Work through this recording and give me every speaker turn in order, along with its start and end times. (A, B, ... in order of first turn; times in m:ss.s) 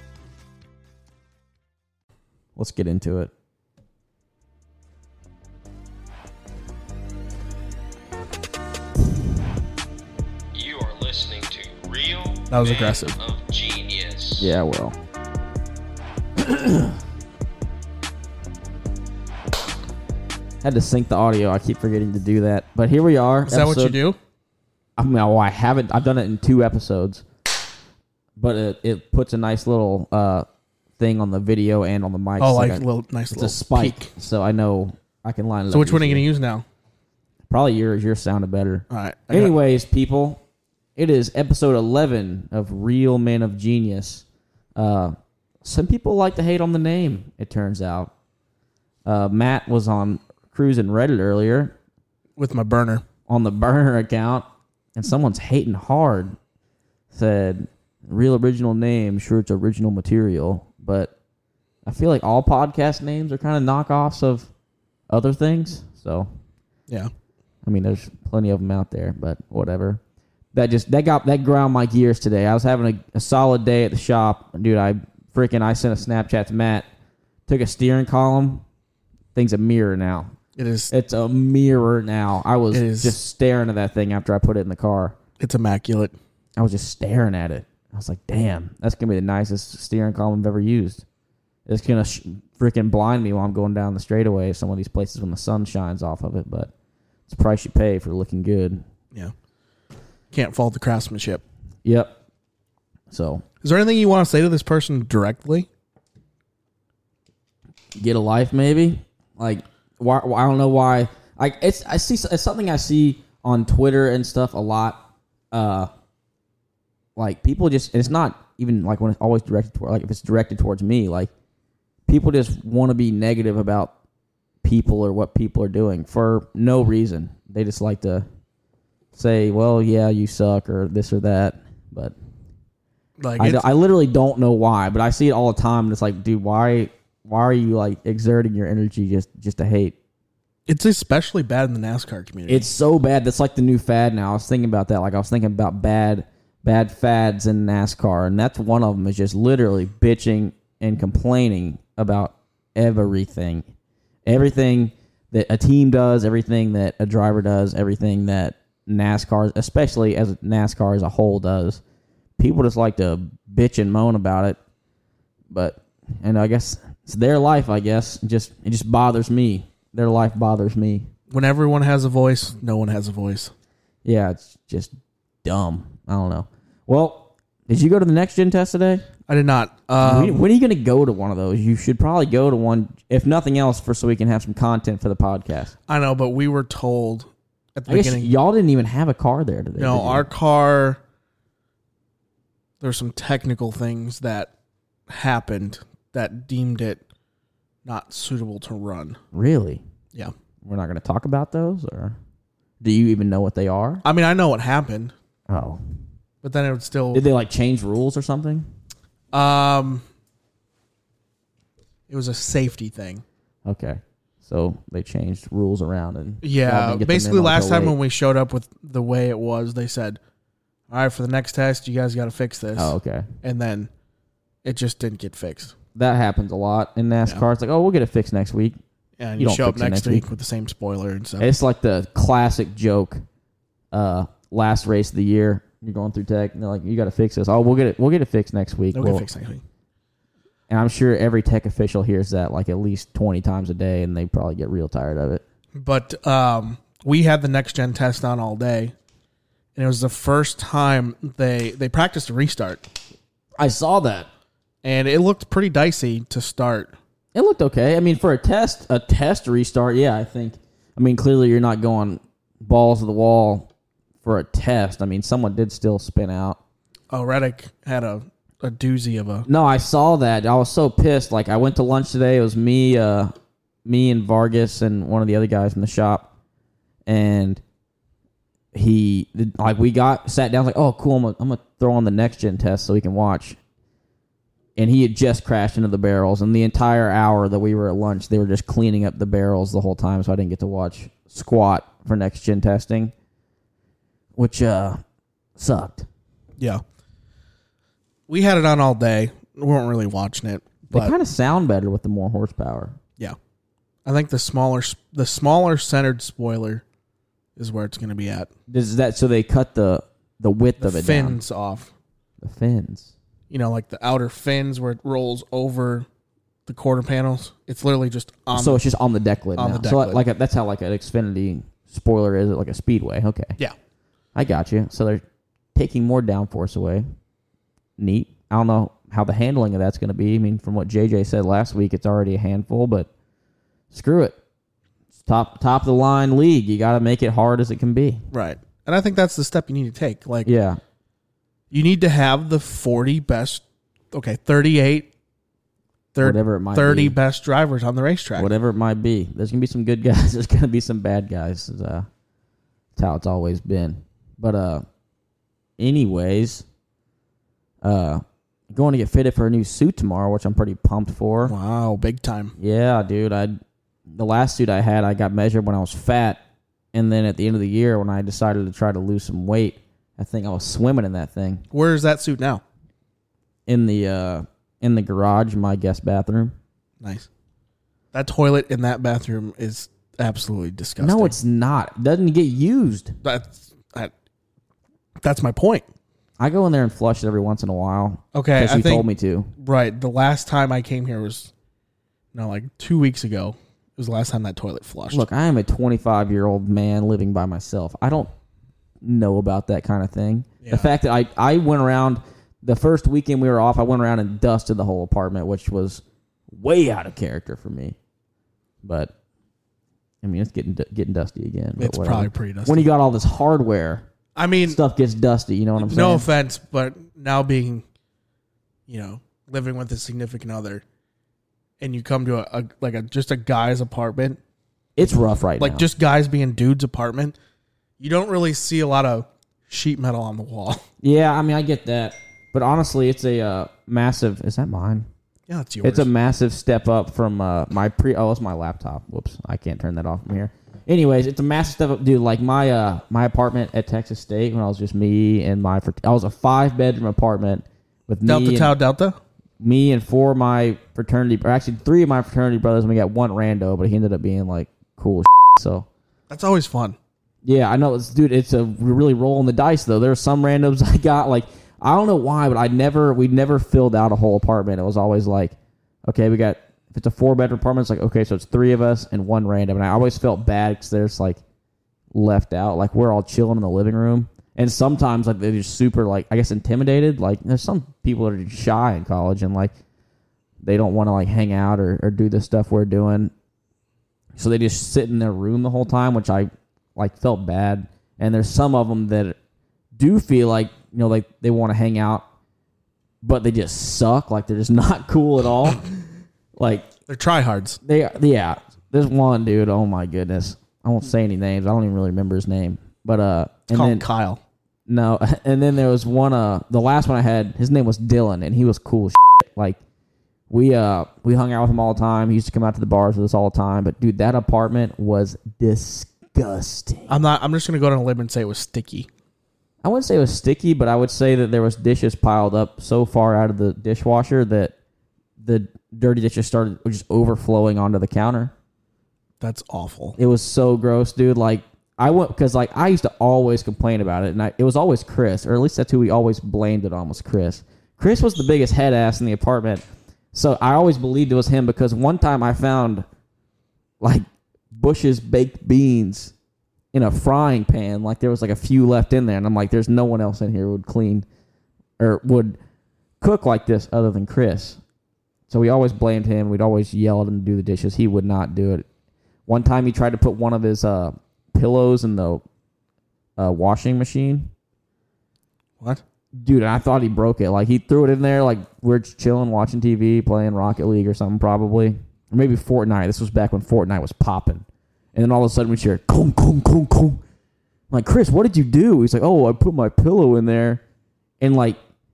0:02.6-0:03.3 A
0:10.5-0:14.5 B
0:12.5-0:13.2 C
0:14.4-0:15.0 A
0:16.4-0:17.0 A
0:20.6-0:24.0 A
0:23.5-0:24.2 C
0:25.0-0:27.2 A
0:28.4-0:30.4 A
0:31.0-0:36.3 A
0:32.4-0:34.1 C
0:35.7-0:36.6 C
0:37.5-0:40.4 A
0:38.9-0:39.5 C
0:41.0-0:44.2 A
0:44.8-0:48.1 A
0:49.0-0:51.7 A
0:52.4-0:53.0 C
0:53.3-0:56.4 A
0:57.1-1:01.1 A
1:01.8-1:04.5 A
1:05.1-1:06.3 A
1:07.6-1:10.0 A
1:10.5-1:16.8 A
1:17.5-1:18.6 A
1:19.3-1:20.3 A
1:20.6-1:20.9 C
1:20.9-1:25.1 A
1:22.7-1:23.2 C
1:25.4-1:26.1 C
1:26.6-1:31.0 A
1:31.6-1:36.7 A
1:37.3-1:38.8 A
1:40.3-1:41.4 C
1:41.8-1:42.2 A
1:43.1-1:43.4 A
1:43.6-1:45.7 C
1:47.9-1:55.9 A
1:57.2-2:01.3 A
2:02.1-2:03.9 A
2:04.6-2:08.2 A
2:09.1-2:12.1 A
2:13.2-2:13.6 C
2:13.4-2:19.9 A
2:20.7-2:22.7 C
2:22.5-2:33.6 A
2:34.2-2:41.8 A
2:42.4-2:44.6 A
2:45.5-2:51.1 A
2:51.3-2:53.5 C
2:54.0-2:59.0 A
2:59.3-3:00.5 C
3:00.0-3:05.7 A
3:05.9-3:08.3 C
3:07.9-3:10.3 A
3:09.8-3:11.0 C
3:12.8-3:14.5 C
3:15.1-3:17.0 C
3:17.8-3:19.2 C
3:19.3-3:19.8 A
3:20.6-3:22.2 A
3:22.8-3:24.0 A
3:24.0-3:25.1 C
3:25.5-3:25.8 A
3:26.4-3:27.2 C
3:27.1-3:28.7 A
3:29.3-3:30.0 C
3:32.1-3:33.2 C
3:33.6-3:37.9 A
3:36.4-3:40.2 C
3:40.9-3:43.9 C
3:42.8-3:43.3 A
3:44.6-3:45.7 C
3:45.9-3:48.8 A
3:49.2-3:51.5 C
3:49.4-3:50.2 A
3:51.4-3:53.2 A
3:53.9-3:59.2 A
3:58.9-3:59.6 C
4:00.7-4:05.4 A
4:05.7-4:08.9 C
4:09.7-4:12.8 C
4:13.6-4:14.3 A
4:14.8-4:16.9 C
4:17.3-4:23.7 A
4:24.2-4:26.6 A
4:27.1-4:29.5 C
4:29.4-4:33.3 A
4:33.8-4:36.3 A
4:37.0-4:37.6 A
4:38.7-4:43.6 A
4:44.8-4:53.1 A
4:54.4-4:55.0 A
4:55.6-4:56.0 A
4:58.3-5:01.1 C
5:00.9-5:03.0 A
5:04.0-5:06.8 C
5:07.6-5:08.5 C
5:08.7-5:11.4 A
5:10.8-5:11.9 C
5:12.4-5:13.1 A
5:13.5-5:16.1 C
5:16.7-5:18.8 C
5:18.5-5:23.6 A
5:19.6-5:20.2 C
5:24.3-5:25.2 A
5:25.7-5:27.0 A
5:28.0-5:33.1 A
5:33.9-5:34.4 A
5:35.2-5:38.2 A
5:38.3-5:40.5 C
5:40.4-5:40.8 A
5:41.7-5:45.1 C
5:46.1-5:48.5 C
5:46.2-5:47.2 A
5:48.4-5:52.1 A
5:53.0-5:54.8 A
5:55.8-5:56.6 A
5:57.8-6:01.5 A
6:01.4-6:02.6 C
6:02.6-6:06.4 A
6:06.9-6:11.6 A
6:11.7-6:12.6 C
6:13.7-6:16.6 A
6:17.0-6:17.3 C
6:18.1-6:21.4 C
6:21.0-6:23.1 A
6:23.2-6:24.1 C
6:25.2-6:25.8 C
6:26.4-6:29.5 A
6:28.3-6:29.1 C
6:29.6-6:31.5 C
6:32.3-6:35.2 C
6:35.1-6:38.3 A
6:39.0-6:48.0 A
6:40.6-6:40.9 C
6:48.8-6:49.1 A
6:50.2-6:54.0 A
6:51.8-6:52.8 C
6:54.4-6:54.8 C
6:54.6-6:56.3 A
6:55.8-6:57.8 C
6:58.9-7:00.8 C
7:01.8-7:04.4 C
7:05.0-7:05.8 A
7:05.6-7:07.4 C
7:08.0-7:10.8 C
7:11.0-7:15.1 A
7:15.5-7:16.1 C
7:15.8-7:28.7 A
7:28.2-7:29.2 C
7:29.6-7:35.9 A
7:36.3-7:37.0 C
7:37.4-7:51.4 A
7:52.1-7:59.7 A
8:00.6-8:03.3 A
8:04.4-8:09.4 A
8:09.9-8:12.2 A
8:13.2-8:15.9 A
8:16.6-8:16.9 A
8:17.1-8:17.8 C
8:17.8-8:24.0 A
8:23.7-8:24.4 C
8:24.9-8:29.8 A
8:30.5-8:37.2 A
8:37.1-8:39.1 C
8:39.8-8:44.7 A
8:45.4-8:48.5 A
8:49.4-8:50.2 C
8:50.2-9:03.0 A
9:04.0-9:06.3 A
9:06.9-9:11.2 A
9:12.0-9:12.6 A
9:13.2-9:14.8 A
9:15.5-9:18.8 A
9:19.5-9:22.4 A
9:23.4-9:24.5 A
9:26.3-9:34.6 A
9:35.1-9:37.2 A
9:37.9-9:40.8 A
9:41.4-9:41.8 A